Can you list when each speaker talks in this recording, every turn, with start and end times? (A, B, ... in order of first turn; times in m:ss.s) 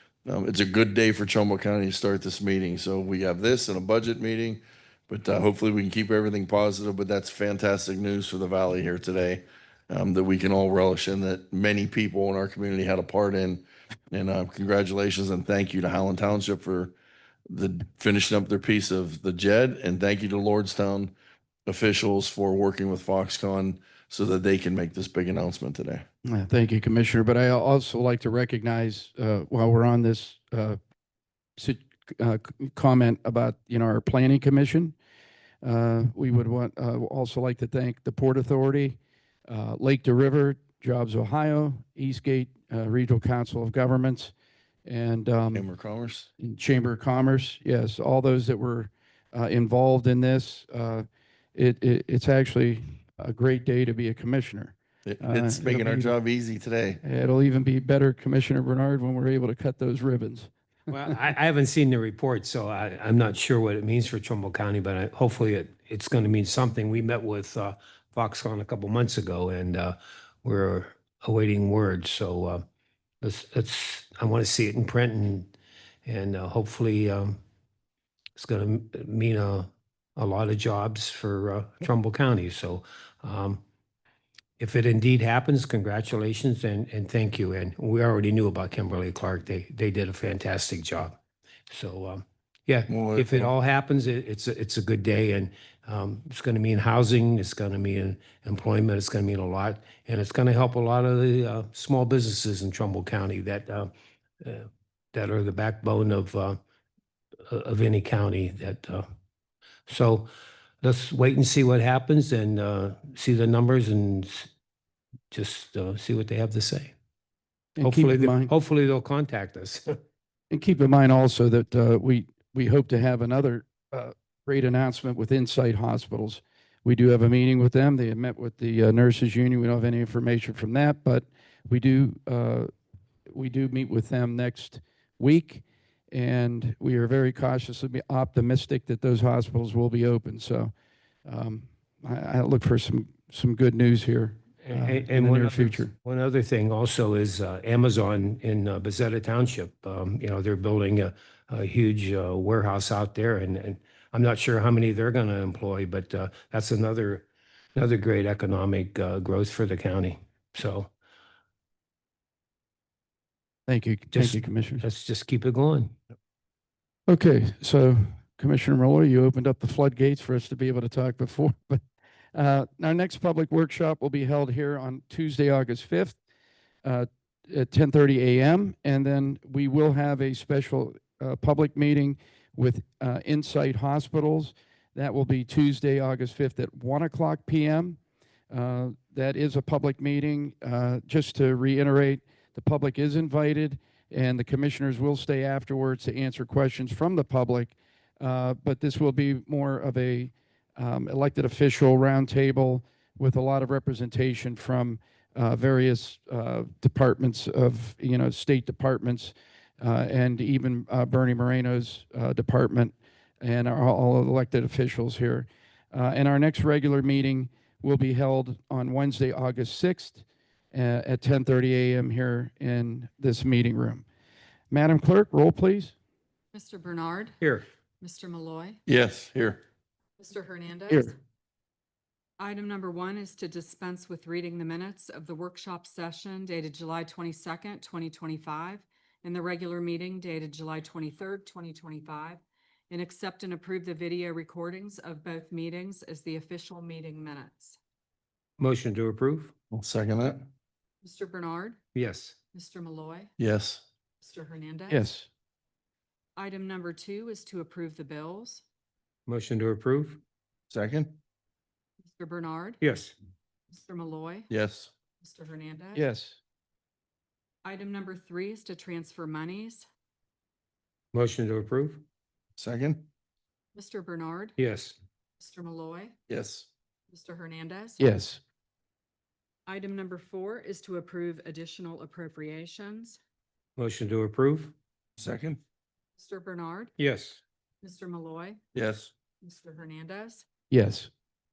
0:00.3-0:17.0 A
0:17.5-0:21.1 A
0:21.7-0:26.0 A
0:26.3-0:30.8 B
0:31.6-0:35.0 B
0:35.6-0:44.3 B
0:44.8-0:45.7 B
0:45.5-0:46.3 A
0:46.4-0:56.2 B
0:55.1-0:57.0 A
0:57.0-1:01.1 B
1:00.9-1:12.6 C
1:13.2-1:15.5 C
1:16.0-1:17.4 C
1:18.4-1:23.6 C
1:24.6-1:31.2 C
1:31.7-1:43.9 C
1:32.9-1:33.5 A
1:44.4-1:46.6 C
1:47.5-1:49.0 C
1:49.9-1:50.3 C
1:50.8-1:54.5 C
1:55.3-1:56.9 C
1:57.8-1:58.5 B
1:57.8-1:59.9 C
2:00.5-2:12.7 B
2:13.3-2:20.7 B
2:21.2-2:25.9 B
2:24.6-2:40.9 C
2:43.7-2:44.8 B
2:44.1-2:46.0 C
2:47.1-2:56.2 B
2:56.8-3:44.0 B
3:44.7-3:46.0 B
3:46.5-3:47.4 D
3:48.0-3:48.8 D
3:48.9-3:49.6 A
3:50.2-3:51.1 D
3:52.4-4:07.8 D
4:08.6-4:09.5 C
4:09.7-4:10.5 A
4:11.0-4:11.8 D
4:11.9-4:12.4 C
4:12.5-4:13.3 D
4:13.4-4:13.8 A
4:14.2-4:15.1 D
4:14.9-4:15.3 B
4:16.4-4:18.6 D
4:19.3-4:20.2 C
4:20.7-4:21.2 A
4:22.0-4:22.8 D
4:22.8-4:23.1 C
4:23.7-4:24.5 D
4:24.5-4:24.9 A
4:25.2-4:26.0 D
4:26.0-4:26.4 B
4:27.6-4:29.9 D
4:31.1-4:32.0 C
4:32.6-4:33.1 A
4:33.8-4:34.6 D
4:34.6-4:35.0 C
4:35.4-4:36.2 D
4:36.3-4:36.7 A
4:37.1-4:38.1 D
4:38.0-4:38.4 B
4:39.7-4:43.2 D
4:43.8-4:44.7 C
4:45.2-4:45.6 A
4:46.2-4:46.9 D
4:47.0-4:47.4 C
4:47.8-4:48.6 D
4:48.7-4:49.1 A
4:49.4-4:50.5 D
4:50.7-4:51.1 B